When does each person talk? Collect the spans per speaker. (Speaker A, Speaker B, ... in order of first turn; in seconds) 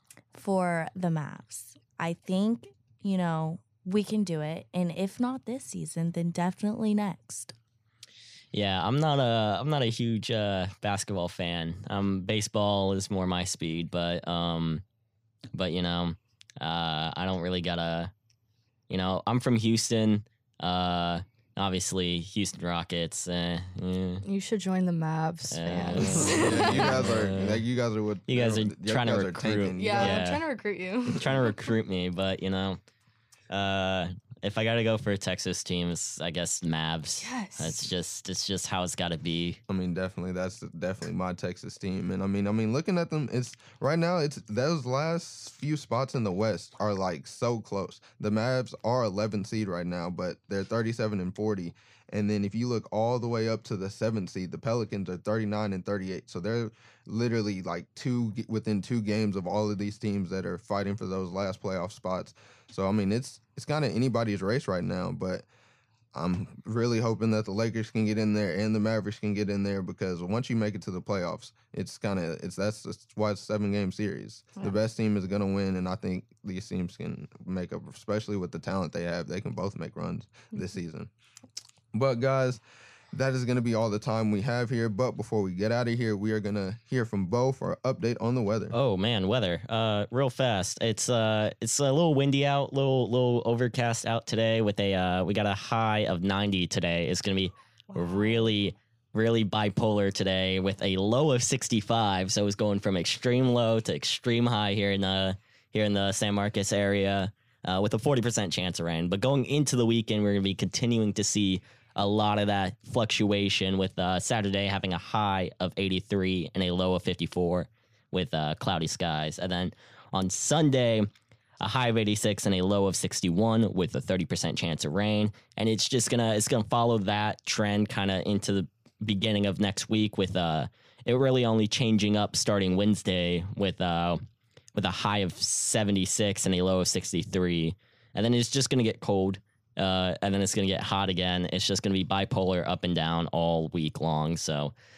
Speaker A: 0.3-7.5
Speaker B: 8.5-14.8, 15.5-18.1, 18.9-24.2, 25.5-27.6, 28.3-30.4, 31.1-32.8, 33.5-39.6, 88.7-121.1, 121.6-134.2, 134.7-144.7
Speaker C: 24.2-27.0, 29.8-31.5, 37.2-37.9
Speaker D: 26.0-30.2, 39.7-65.5, 66.1-81.1, 81.9-82.6, 83.1-88.7